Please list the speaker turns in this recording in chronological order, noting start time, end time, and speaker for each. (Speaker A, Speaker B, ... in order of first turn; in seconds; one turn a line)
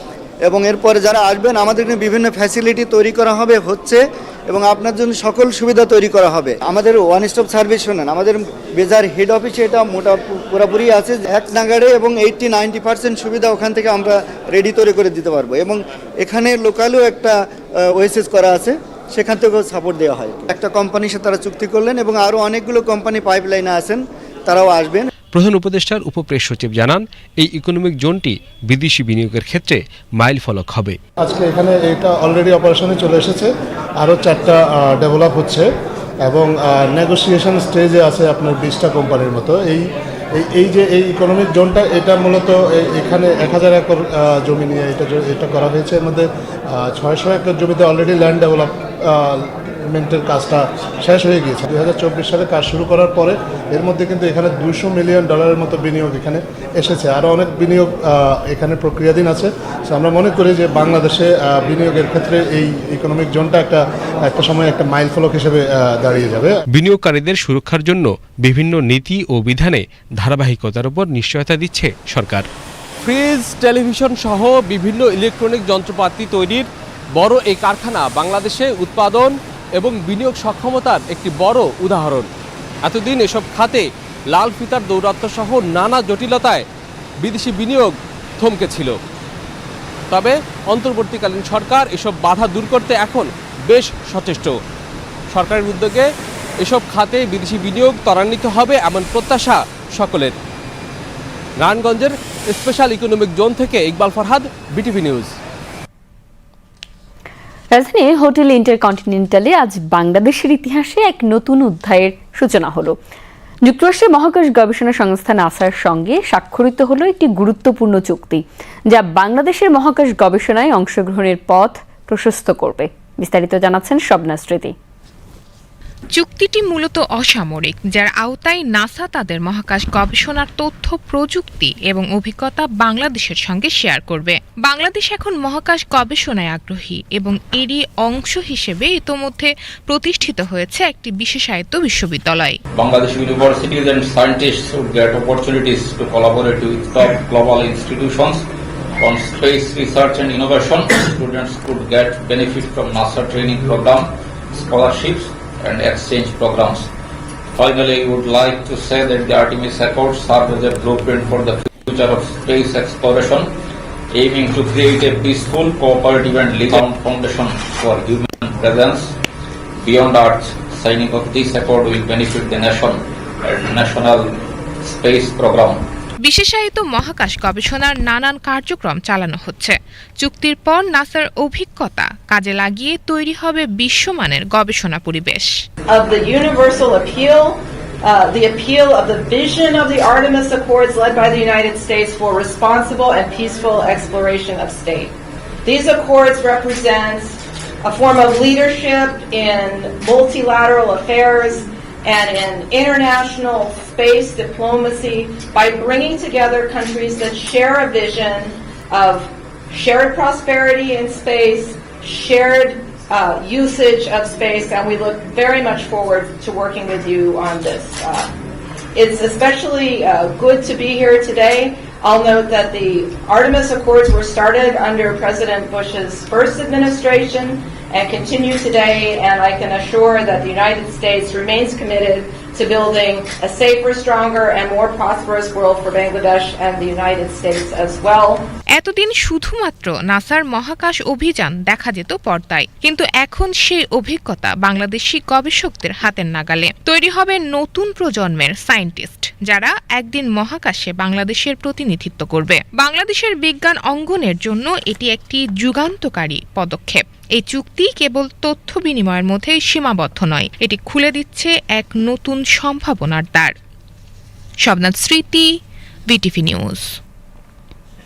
Speaker A: 0.4-25.1
Speaker B: 25.3-31.0
Speaker C: 31.2-35.7
Speaker C: 36.2-66.6
Speaker B: 66.7-72.5
Speaker D: 73.0-82.3
Speaker D: 82.8-86.7
Speaker D: 87.2-89.0
Speaker D: 90.1-94.6
Speaker D: 95.3-100.3
Speaker D: 101.6-105.4
Speaker E: 107.7-113.0
Speaker E: 113.7-124.8
Speaker F: 126.2-142.6
Speaker G: 142.7-148.4
Speaker G: 149.0-156.9
Speaker G: 157.6-163.5
Speaker G: 164.1-169.1
Speaker G: 169.8-174.2
Speaker G: 174.8-175.8
Speaker F: 176.2-185.5
Speaker H: 185.9-195.1
Speaker H: 195.7-218.3
Speaker H: 218.9-238.5
Speaker F: 238.8-263.6
Speaker F: 264.6-267.0